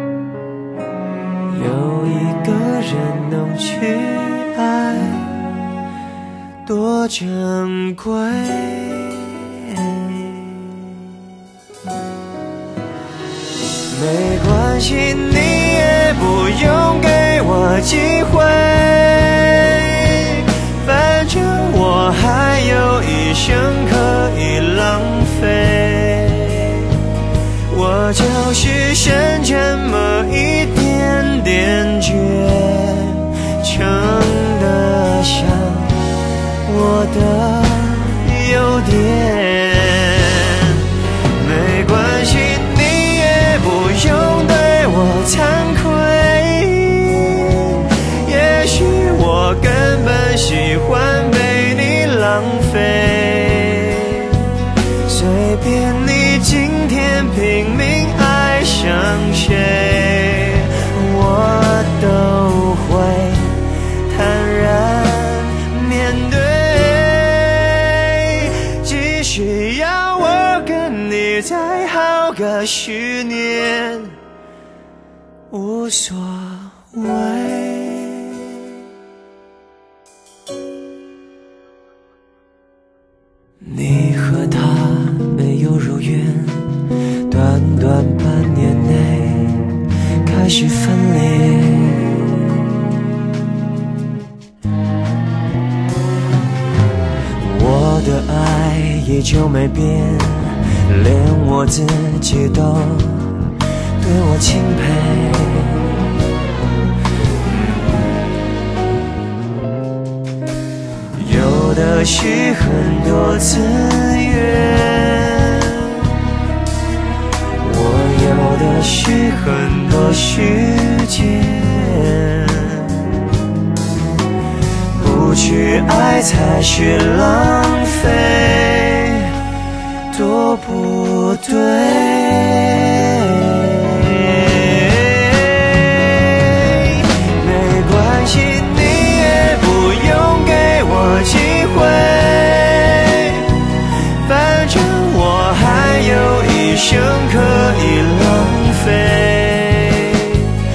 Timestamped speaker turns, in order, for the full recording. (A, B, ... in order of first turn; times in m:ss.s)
0:01.5-0:05.5 A
0:06.6-0:11.0 A
0:13.9-0:26.9 A
0:27.7-0:36.0 A
0:36.6-0:40.8 A
0:41.4-0:54.4 A
0:55.0-1:14.2 A
1:15.5-1:18.4 A
1:23.6-1:29.7 A
1:30.2-1:32.5 A
1:37.4-1:43.4 A
1:44.0-1:45.9 A
1:47.5-1:48.1 A
1:51.1-1:56.0 A
1:57.6-2:03.1 A
2:04.9-2:09.3 A
2:10.1-2:23.6 A
2:24.2-2:30.6 A